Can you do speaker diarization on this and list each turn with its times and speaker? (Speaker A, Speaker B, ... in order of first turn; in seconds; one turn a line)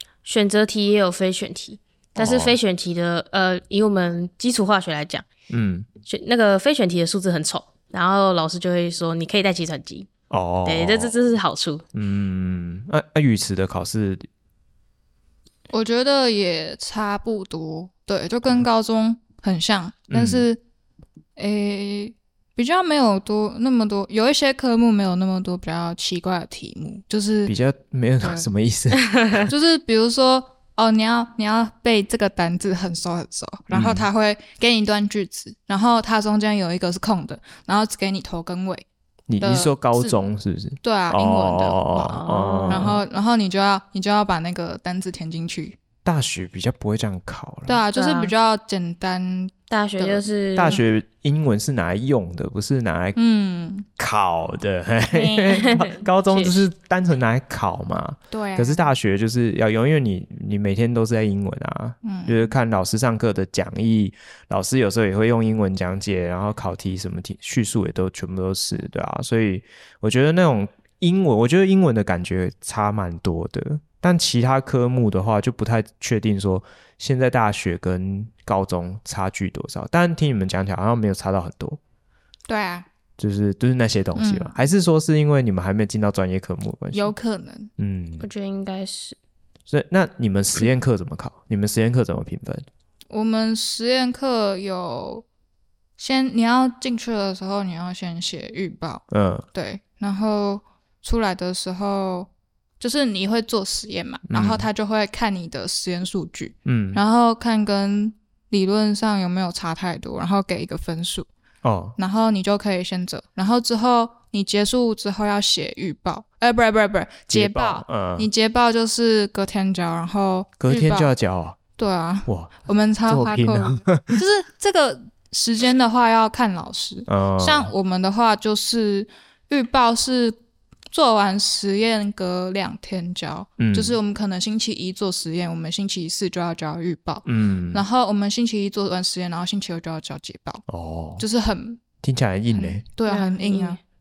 Speaker A: 0.2-5.3
Speaker B: 2.2-2.6
Speaker B: 5.5-5.9
Speaker A: 6.0-10.1
Speaker B: 10.3-11.1
Speaker A: 10.7-11.8
Speaker B: 11.9-14.3
Speaker C: 15.7-20.6
Speaker B: 20.1-20.5
Speaker C: 21.4-27.5
Speaker B: 27.4-29.5
Speaker C: 28.2-28.5
Speaker C: 29.4-38.9
Speaker B: 33.7-34.1
Speaker B: 39.3-43.0
Speaker C: 39.4-40.2
Speaker C: 40.8-45.8
Speaker A: 42.1-42.9
Speaker B: 46.0-47.8
Speaker C: 47.7-50.8
Speaker A: 47.9-48.3
Speaker A: 49.7-50.8
Speaker B: 50.5-53.2
Speaker C: 53.2-53.9
Speaker B: 54.0-81.8
Speaker C: 55.1-55.7
Speaker A: 55.6-56.7
Speaker C: 58.3-58.9
Speaker C: 62.0-62.5
Speaker C: 82.5-82.9
Speaker B: 83.2-87.1
Speaker C: 84.1-84.6
Speaker C: 86.9-87.7
Speaker B: 87.8-88.3
Speaker A: 88.2-89.2
Speaker B: 89.7-92.7
Speaker C: 93.1-95.3
Speaker C: 96.0-111.3
Speaker B: 99.1-99.5
Speaker B: 104.3-104.7
Speaker B: 106.7-107.0
Speaker B: 111.6-112.0
Speaker C: 112.0-121.1
Speaker B: 117.3-118.3
Speaker B: 120.6-121.6
Speaker C: 121.8-130.4
Speaker B: 122.3-122.5
Speaker B: 123.1-124.2
Speaker B: 127.1-127.7
Speaker C: 130.9-140.6
Speaker B: 133.6-134.0
Speaker B: 137.2-137.8
Speaker B: 140.7-141.2
Speaker C: 141.2-141.8
Speaker B: 142.0-142.8
Speaker C: 142.5-143.8
Speaker A: 143.1-143.8